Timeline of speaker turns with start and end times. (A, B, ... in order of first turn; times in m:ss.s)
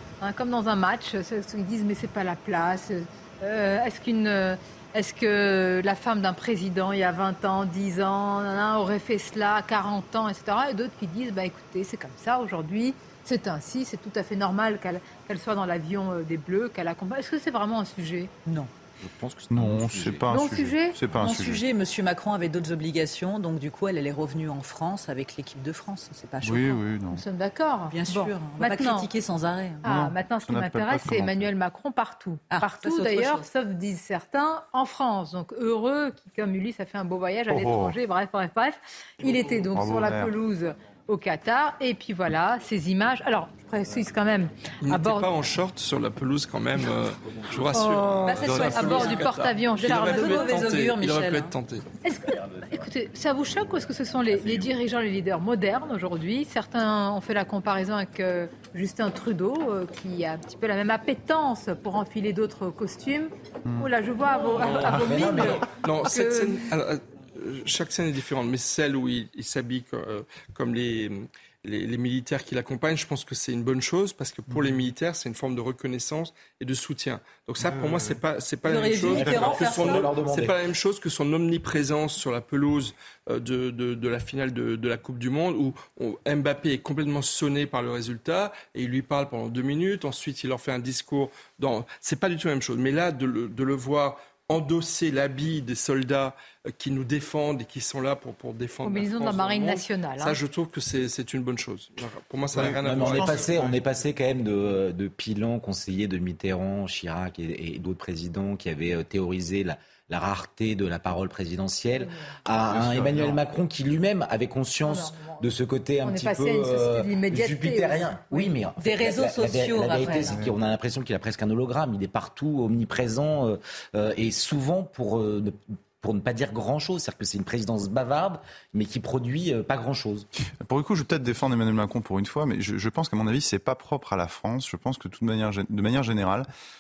0:00.2-0:18.3 A
0:18.4-0:18.7 B
0:19.0-0:20.3 C
0:19.5-0:21.6 D
0:20.3-0:21.0 A
0:21.2-0:26.8 B
0:26.4-0:27.2 D
0:27.1-0:29.1 A
0:27.9-0:29.9 B
0:29.8-0:45.3 A
0:29.8-0:31.5 D
0:32.5-0:33.4 B
0:37.5-0:38.0 D
0:39.3-0:39.6 E
0:39.7-0:40.3 D
0:44.8-0:51.8 E
0:47.7-0:50.6 A
0:48.3-0:51.5 B
0:52.0-1:06.6 A
1:04.6-1:43.9 E
1:04.9-1:05.2 D
1:05.1-1:05.6 C
1:14.5-1:14.8 D
1:17.6-1:18.2 D
1:18.7-1:20.0 B
1:19.1-1:20.6 C
1:38.8-1:40.4 A
1:42.6-2:10.3 C
1:52.0-1:52.3 A
1:52.7-1:53.4 D
1:54.9-1:55.5 A
1:56.0-1:58.6 A
1:58.8-2:00.4 B
2:10.6-2:16.5 D